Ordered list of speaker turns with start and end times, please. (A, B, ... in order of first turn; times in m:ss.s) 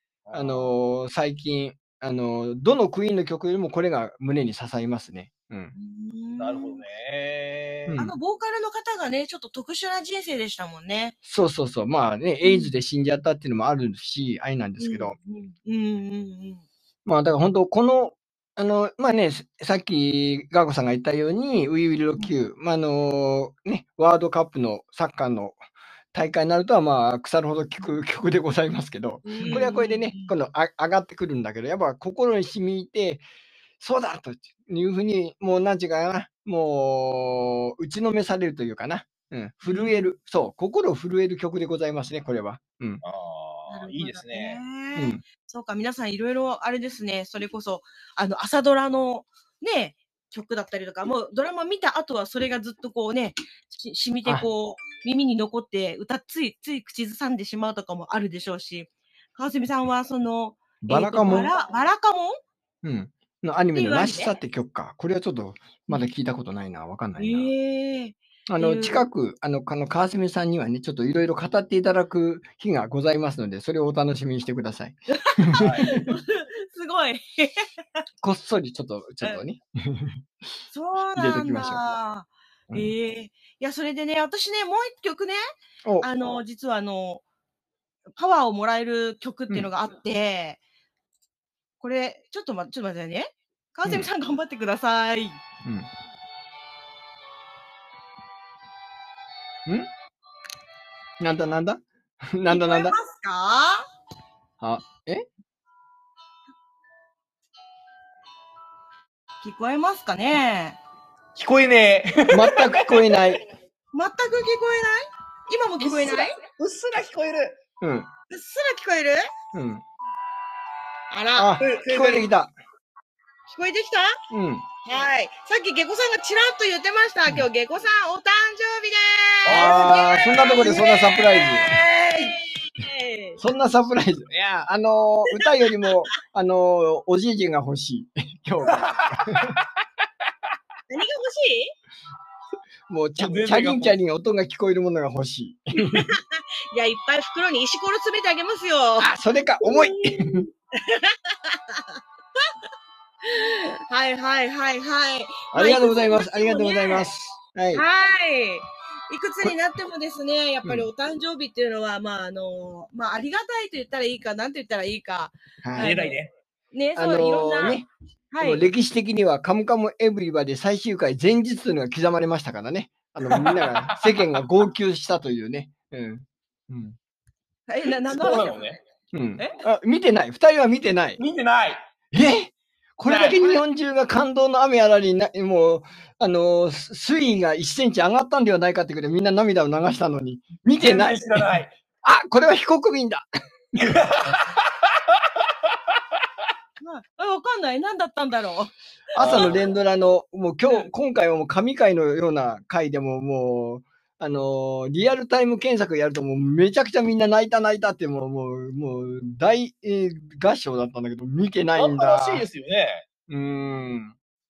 0:00.2-0:00.7 A
0:00.3-0:05.7 B
0:05.7-0:06.8 C
0:06.4-0:08.0 A
0:07.9-0:08.1 B
0:08.0-0:11.2 C
0:11.2-0:15.1 B
0:12.4-0:12.7 C
0:14.8-0:16.6 C
0:17.0-0:25.6 B
0:26.1-0:33.2 B
0:29.2-0:30.3 C
0:33.8-0:43.0 B
0:39.6-0:40.1 C
0:43.0-0:44.6 A
0:43.7-1:02.4 C
0:45.0-0:45.2 B
1:00.8-1:01.5 B
1:02.8-1:07.5 B
1:03.7-1:04.4 C
1:07.2-1:09.0 C
1:08.5-1:16.2 B
1:15.2-1:17.7 C
1:15.6-1:15.9 A
1:18.2-1:20.2 B
1:20.7-1:25.4 C
1:21.1-1:21.8 B
1:26.0-1:27.2 C
1:28.2-1:30.6 C
1:31.8-1:35.4 C
1:41.2-1:43.0 B
1:42.5-1:43.8 C
1:44.6-1:45.2 B
1:49.4-1:50.8 C
1:51.3-1:53.4 A
1:52.3-1:53.4 B
1:53.9-1:56.4 C
1:55.8-1:57.6 A
1:57.8-1:58.1 B
1:58.3-1:59.3 C
1:59.5-1:59.8 B
2:01.1-2:01.6 C
2:01.3-2:02.5 B
2:01.6-2:02.3 A
2:03.5-2:04.2 C
2:04.3-2:04.6 B
2:04.8-2:13.4 C
2:09.5-2:09.8 A
2:09.5-2:11.7 B
2:13.4-2:19.6 B
2:18.7-2:19.6 A
2:20.9-2:21.7 C
2:22.9-2:26.1 B
2:23.2-2:24.0 A
2:25.7-2:32.0 C
2:29.0-2:30.4 B
2:33.2-2:37.1 C
2:35.5-2:37.8 B
2:37.7-2:46.2 C
2:40.6-2:40.9 B
2:45.6-2:46.0 B
2:45.8-2:46.3 A
2:46.7-2:47.8 C
2:47.0-2:47.9 B
2:48.3-2:48.7 C
2:48.4-2:57.0 B
2:53.2-2:54.3 A
2:57.7-2:58.8 C
2:58.0-2:58.8 A
2:59.1-3:01.2 B
3:01.2-3:01.8 A
3:02.1-3:11.5 B
3:03.0-3:03.4 A
3:10.8-3:11.7 A
3:12.0-3:13.2 B
3:13.7-3:14.7 A
3:16.8-3:19.6 C
3:19.2-3:32.4 B
3:19.2-3:19.6 A
3:31.8-3:33.0 A
3:33.3-3:34.1 B